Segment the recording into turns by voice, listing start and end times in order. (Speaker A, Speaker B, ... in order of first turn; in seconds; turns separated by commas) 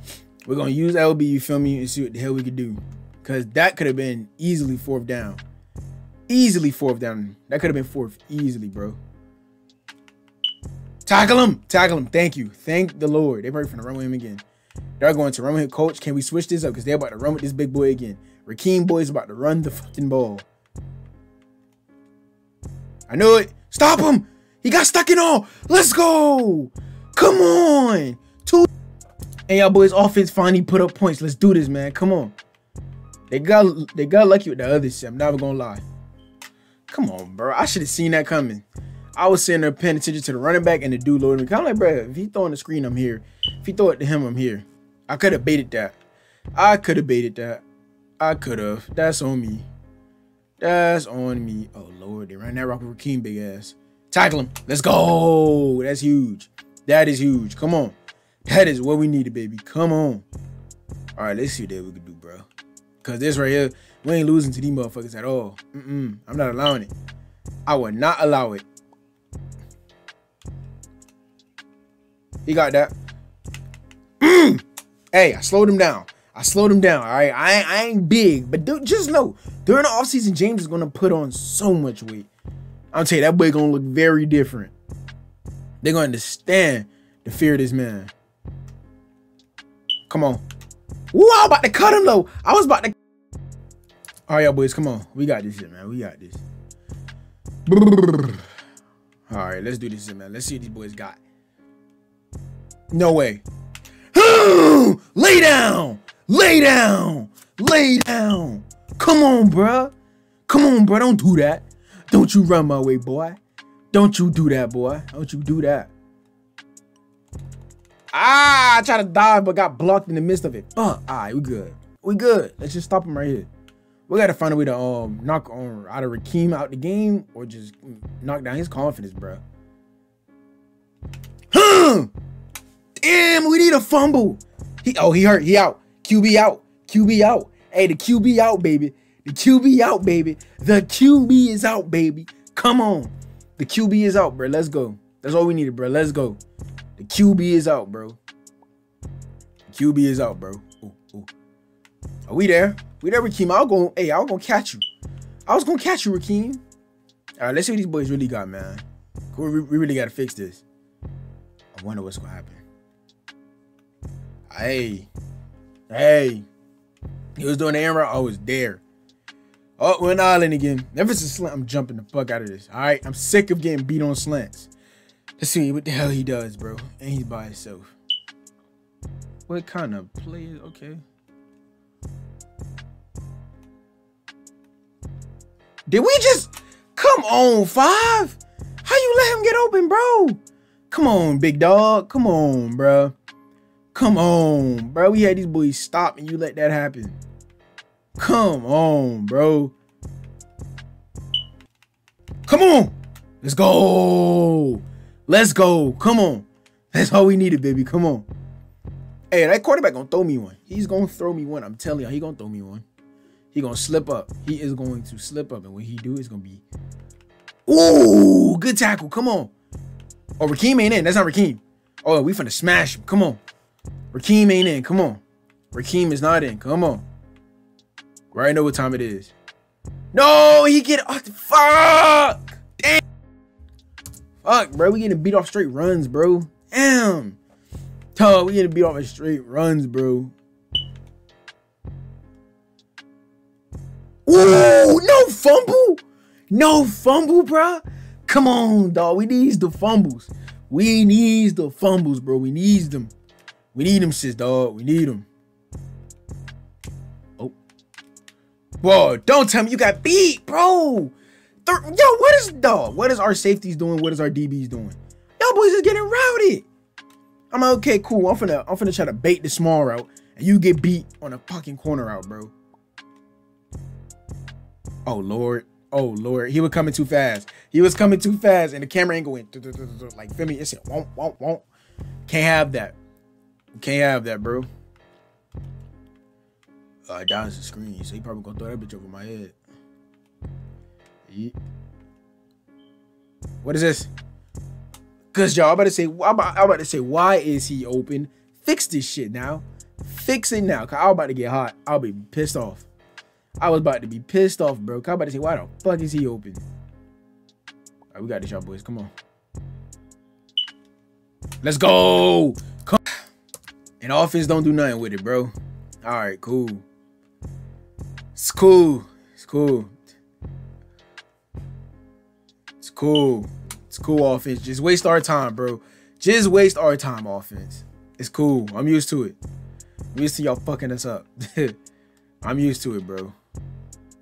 Speaker A: 0.5-5.4, Speaker A: 6.3-9.0, Speaker A: 11.1-14.4, Speaker A: 15.0-20.5, Speaker A: 23.1-28.7, Speaker A: 29.5-32.3, Speaker A: 33.3-35.8, Speaker A: 36.9-38.6, Speaker A: 39.2-46.0, Speaker A: 46.5-47.6, Speaker A: 48.2-49.7, Speaker A: 50.6-60.2, Speaker A: 61.2-62.5, Speaker A: 63.0-66.9, Speaker A: 67.7-68.7, Speaker A: 72.5-73.0, Speaker A: 74.2-82.3, Speaker A: 82.9-84.7, Speaker A: 85.8-88.1, Speaker A: 90.1-90.4, Speaker A: 91.1-93.0, Speaker A: 94.3-96.4, Speaker A: 97.7-98.4, Speaker A: 99.3-101.2, Speaker A: 102.9-103.4, Speaker A: 104.1-109.9, Speaker A: 110.5-113.4, Speaker A: 113.9-115.9, Speaker A: 118.1-123.5, Speaker A: 124.1-129.4, Speaker A: 131.5-132.1, Speaker A: 133.0-146.4, Speaker A: 147.0-148.2, Speaker A: 149.7-151.3, Speaker A: 152.3-154.8, Speaker A: 155.5-156.6, Speaker A: 157.4-160.6, Speaker A: 161.7-162.6, Speaker A: 164.5-165.1, Speaker A: 165.9-166.5, Speaker A: 167.4-168.8, Speaker A: 169.8-174.7, Speaker A: 175.4-177.9, Speaker A: 179.5-181.0, Speaker A: 185.9-193.1, Speaker A: 193.9-197.2, Speaker A: 198.2-199.7, Speaker A: 202.5-208.3, Speaker A: 209.3-212.8, Speaker A: 213.5-216.6, Speaker A: 217.7-219.5, Speaker A: 220.4-223.4, Speaker A: 224.1-225.2, Speaker A: 225.7-227.0, Speaker A: 228.3-229.3, Speaker A: 230.1-233.0, Speaker A: 234.4-237.4, Speaker A: 238.2-240.3, Speaker A: 244.3-253.1, Speaker A: 253.7-255.3, Speaker A: 258.8-261.1, Speaker A: 261.6-266.7, Speaker A: 267.5-272.5, Speaker A: 275.1-281.6, Speaker A: 282.3-283.0, Speaker A: 283.8-284.7, Speaker A: 287.1-289.6, Speaker A: 291.3-291.6, Speaker A: 293.6-294.1, Speaker A: 295.3-302.9, Speaker A: 303.6-306.6, Speaker A: 308.1-309.1, Speaker A: 311.6-313.0, Speaker A: 314.0-315.5, Speaker A: 316.0-316.8, Speaker A: 318.4-319.9, Speaker A: 322.8-329.4, Speaker A: 330.1-331.8, Speaker A: 332.4-333.4